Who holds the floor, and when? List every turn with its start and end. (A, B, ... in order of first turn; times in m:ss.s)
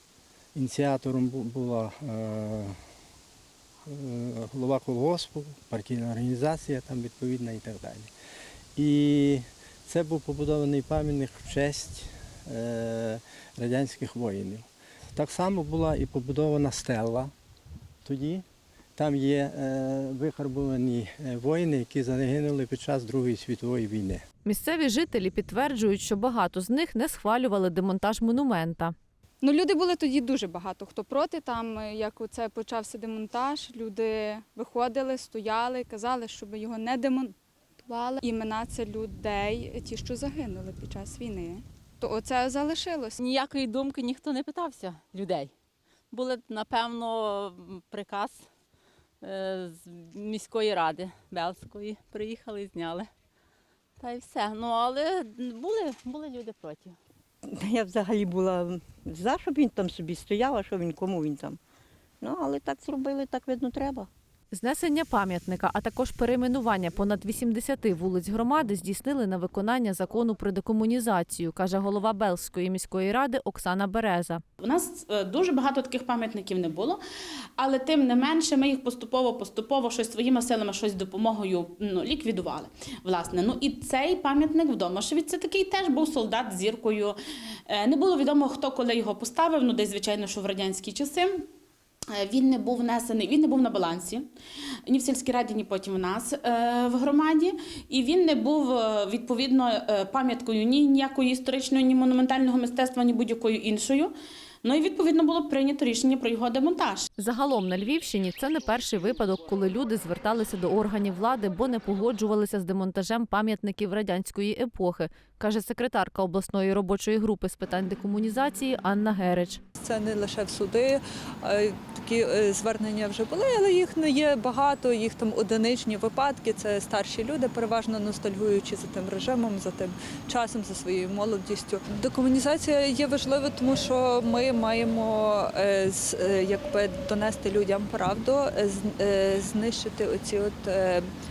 0:00.5-0:02.8 A
0:03.8-0:08.1 A
0:08.8-0:17.3 A
0:18.0-0:18.4 A
0:19.0-0:24.2 A
0:24.4-0:28.9 B
0:29.4-0:37.3 C
0:37.8-0:43.2 C
0:43.2-0:45.5 D
0:46.1-0:48.5 D
0:49.2-0:53.1 D
0:54.0-0:57.0 D
0:57.5-1:01.6 E
1:02.2-1:04.1 E
1:04.5-1:14.4 B
1:14.6-1:17.0 F
1:17.6-1:27.2 F
1:27.7-1:31.4 F
1:32.1-1:34.2 F
1:34.9-1:44.1 F
1:44.6-1:47.1 F
1:47.2-1:59.6 B
1:59.8-2:21.1 G